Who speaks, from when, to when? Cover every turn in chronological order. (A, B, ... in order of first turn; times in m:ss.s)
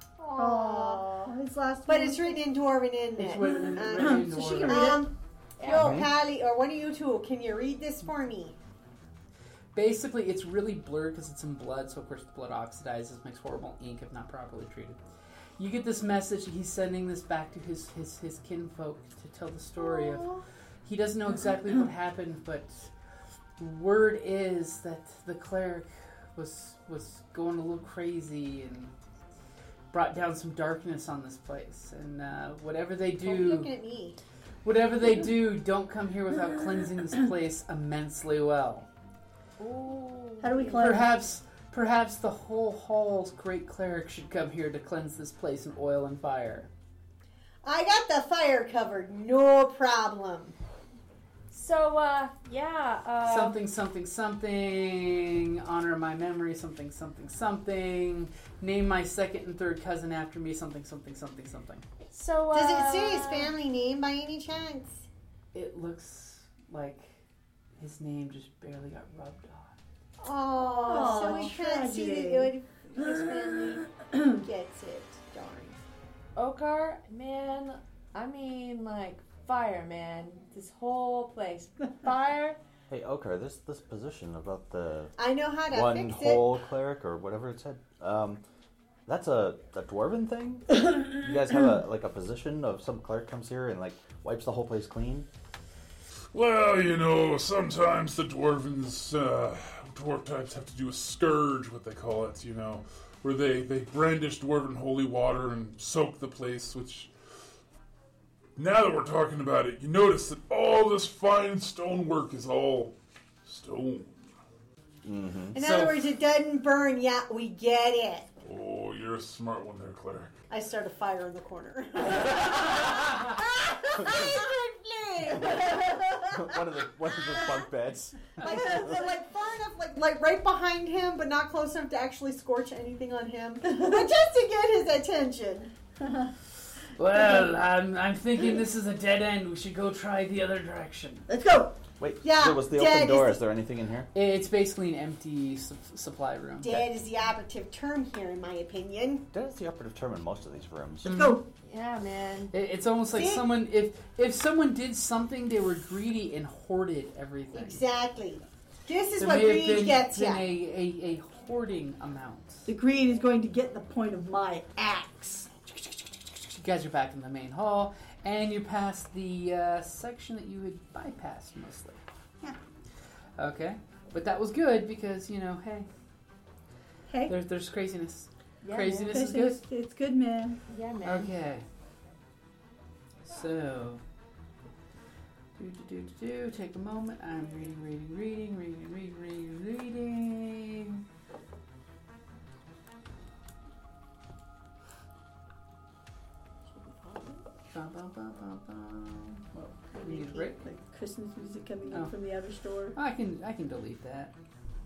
0:00.2-0:01.1 A
0:00.4-0:02.4 B
0:01.9-0:08.6 A
0:03.2-0:05.0 C
0:03.5-0:05.0 B
0:05.6-0:05.9 D
0:05.7-0:06.1 E
0:09.7-0:15.0 C
0:15.6-0:20.3 C
0:19.8-0:20.4 A
0:20.8-0:22.9 C
0:23.6-0:28.9 C
0:29.9-0:33.7 C
0:33.2-0:34.2 A
0:34.6-0:38.8 C
0:39.6-0:41.0 D
0:40.4-0:41.1 B
0:40.8-0:46.7 C
0:47.6-0:50.6 A
0:51.5-0:53.6 D
0:53.2-1:01.8 C
1:02.1-1:03.5 D
1:02.5-1:05.0 A
1:05.5-1:07.1 C
1:07.8-1:09.8 C
1:10.2-1:15.8 A
1:10.6-1:11.5 D
1:10.8-1:14.4 B
1:13.1-1:13.4 D
1:16.3-1:22.6 D
1:22.9-1:25.1 E
1:25.2-1:26.5 A
1:25.7-1:28.4 E
1:29.0-1:35.3 E
1:36.3-1:47.1 F
1:48.6-1:54.1 F
1:55.0-1:55.5 E
1:55.5-1:58.3 A
1:55.6-1:56.0 C
1:58.4-2:00.3 F
2:00.5-2:06.4 A
2:06.3-2:09.0 E
2:08.4-2:15.7 A
2:08.4-2:09.1 B
2:16.0-2:16.3 B
2:17.0-2:21.3 C
2:21.3-2:21.8 B
2:22.0-2:24.1 E
2:22.2-2:23.4 A
2:24.1-2:26.8 C
2:26.6-2:29.2 A
2:29.3-2:31.1 E
2:31.0-2:31.4 C
2:31.0-2:31.5 B
2:31.6-2:32.5 D
2:32.5-2:37.8 C
2:33.1-2:33.5 A
2:37.5-2:40.4 A
2:39.2-2:42.7 C
2:42.6-2:45.6 B
2:46.4-2:52.0 C
2:53.4-2:55.9 C
2:57.1-2:57.3 B
2:57.3-2:59.6 C
2:58.6-2:59.0 D
2:58.7-3:00.6 B
3:00.7-3:01.3 D
3:01.0-3:01.6 C
3:03.3-3:04.0 C
3:05.6-3:11.0 C
3:17.0-3:17.4 A
3:17.7-3:20.6 C
3:19.9-3:23.0 B
3:22.9-3:24.3 C